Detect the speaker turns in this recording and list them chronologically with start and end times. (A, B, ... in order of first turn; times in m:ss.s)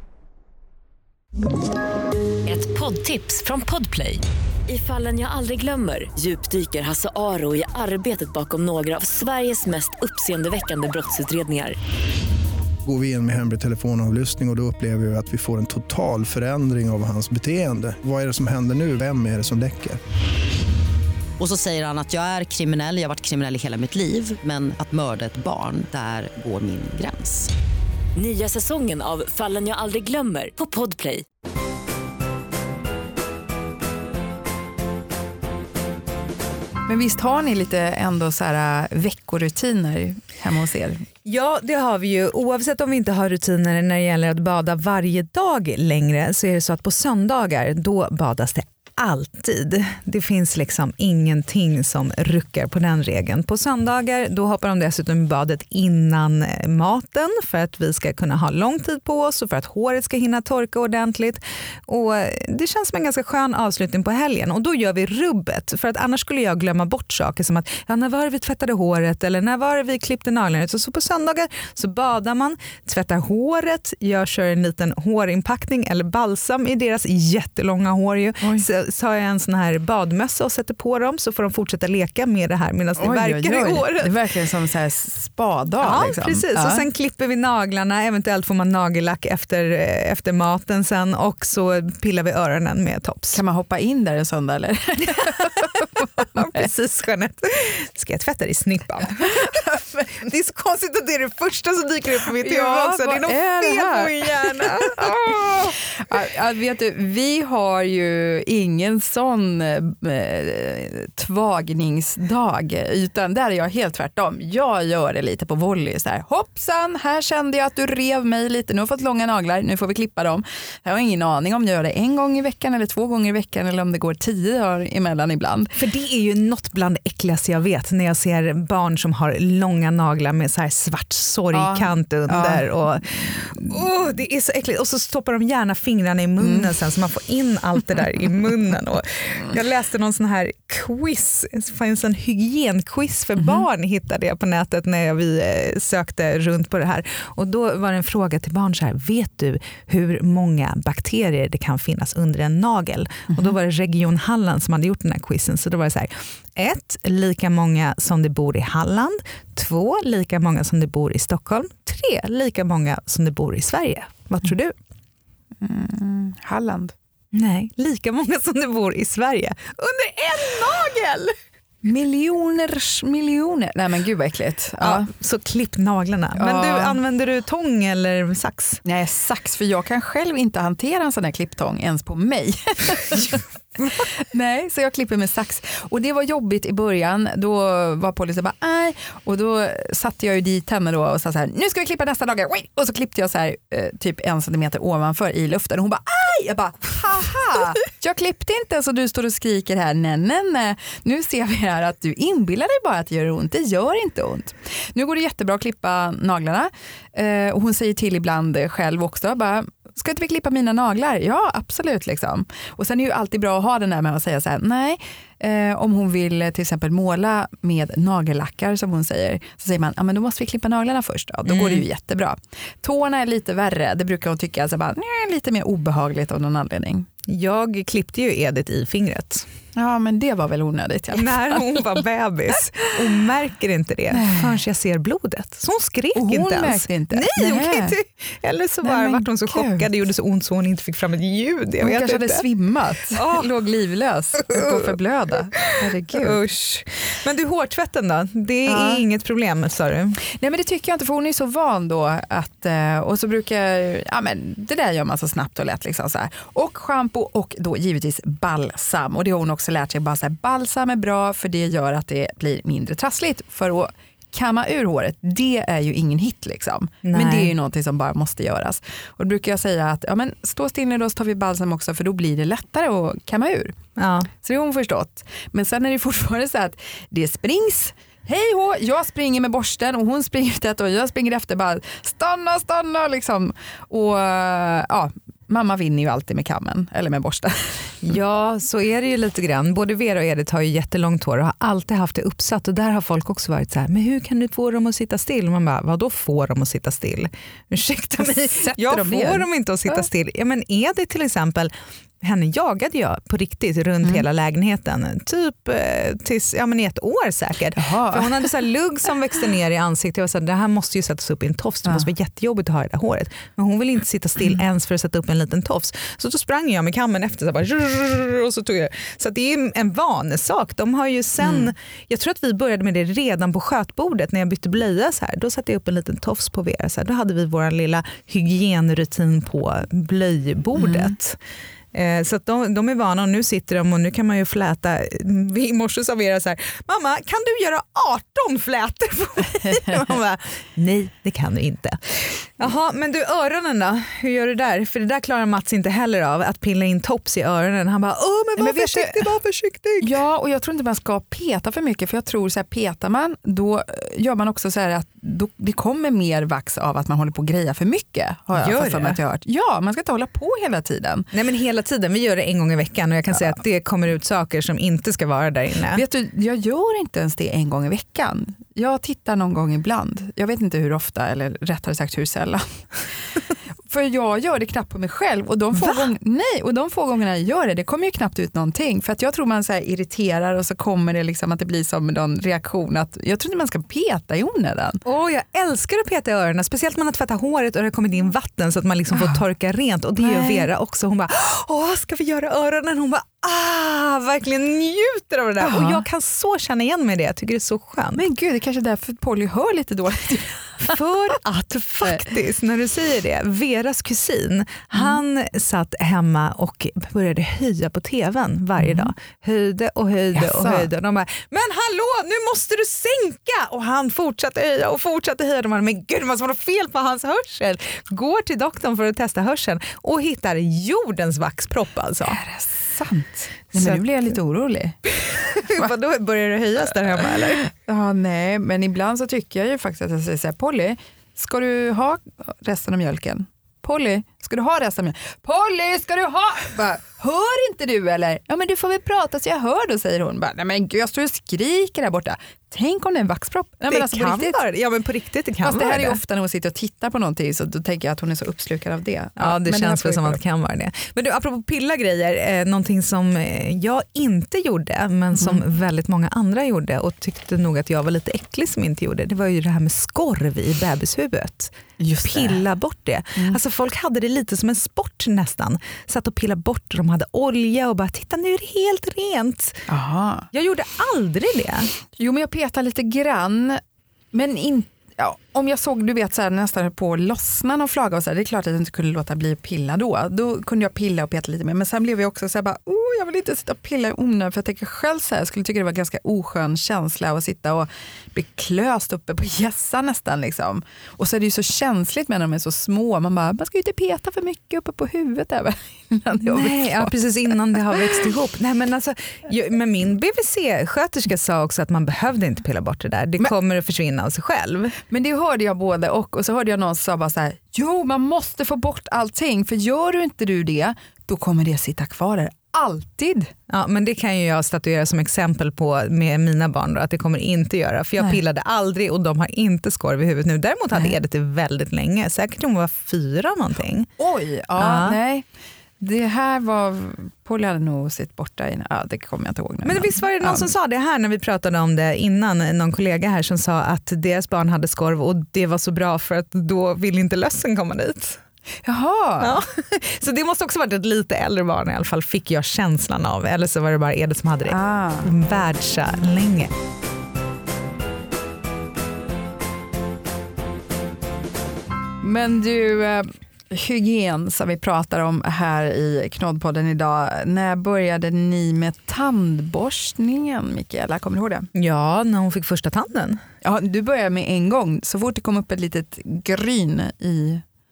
0:02.5-0:11.8 A
0:12.8-0:20.0 B
0:21.4-0:27.5 C
0:28.2-0:31.2 A
0:36.9-0:41.0 D
0:41.2-1:24.1 E
1:23.0-1:26.9 D
1:25.8-1:33.4 E
1:33.3-1:36.7 D
1:36.2-1:45.8 E
1:39.4-1:39.8 D
1:42.3-2:05.7 D
2:05.7-2:44.8 E
2:11.5-2:13.7 D
2:16.4-2:16.7 D
2:45.6-2:47.0 D
2:47.3-2:51.4 E
2:51.8-2:55.1 D
2:54.8-2:58.8 E
2:56.4-2:57.0 D
2:58.8-3:47.1 D
3:41.5-3:41.8 E
3:47.3-3:49.5 E
3:49.8-3:52.0 D
3:51.1-4:02.4 E
3:54.1-3:54.6 D
3:56.1-3:58.0 D
3:58.8-3:59.9 D
4:01.8-4:06.4 D
4:03.1-4:03.5 E
4:05.7-4:10.2 E
4:08.7-4:09.0 D
4:10.2-4:33.8 D
4:27.0-4:27.5 E
4:34.0-4:34.3 E
4:34.3-4:48.1 D
4:48.0-5:01.7 E
4:58.2-5:00.1 D
5:02.2-5:31.4 E
5:07.8-5:08.5 D
5:21.4-5:21.7 D
5:30.8-5:31.2 D
5:31.9-5:50.1 E
5:39.7-5:40.0 D
5:48.6-5:49.3 D
5:50.0-6:01.3 D
5:58.5-5:59.2 E
6:01.3-6:06.0 E
6:05.9-6:12.8 D
6:13.9-6:25.0 D
6:15.7-6:16.1 E
6:25.0-6:38.2 E
6:29.1-6:29.4 D
6:30.2-6:30.7 D
6:35.6-6:36.0 D
6:38.2-6:41.3 D
6:40.8-7:02.4 E
6:42.0-6:42.3 D
6:44.9-6:45.2 D
6:48.8-6:49.1 D
6:50.3-6:50.9 D
7:02.2-7:05.0 D
7:03.7-7:04.0 E
7:05.3-7:07.7 E
7:05.6-7:05.9 D
7:07.2-7:24.6 D
7:23.9-7:26.2 E
7:25.6-7:30.4 D
7:29.4-7:49.8 E
7:35.4-7:35.6 D
7:42.0-7:42.6 D
7:49.9-7:50.5 D
7:50.5-7:51.9 E
7:52.2-7:53.8 D
7:54.3-8:17.2 D
8:16.5-8:25.0 E
8:25.1-8:33.5 D
8:33.7-8:44.1 E
8:44.2-8:45.5 D
8:44.8-8:45.2 E
8:46.0-8:50.7 D
8:49.8-8:58.4 E
8:58.8-8:59.6 D
8:59.4-9:06.7 E
9:04.7-9:05.3 D
9:12.2-9:21.7 D
9:21.8-9:23.4 E
9:23.6-9:27.6 D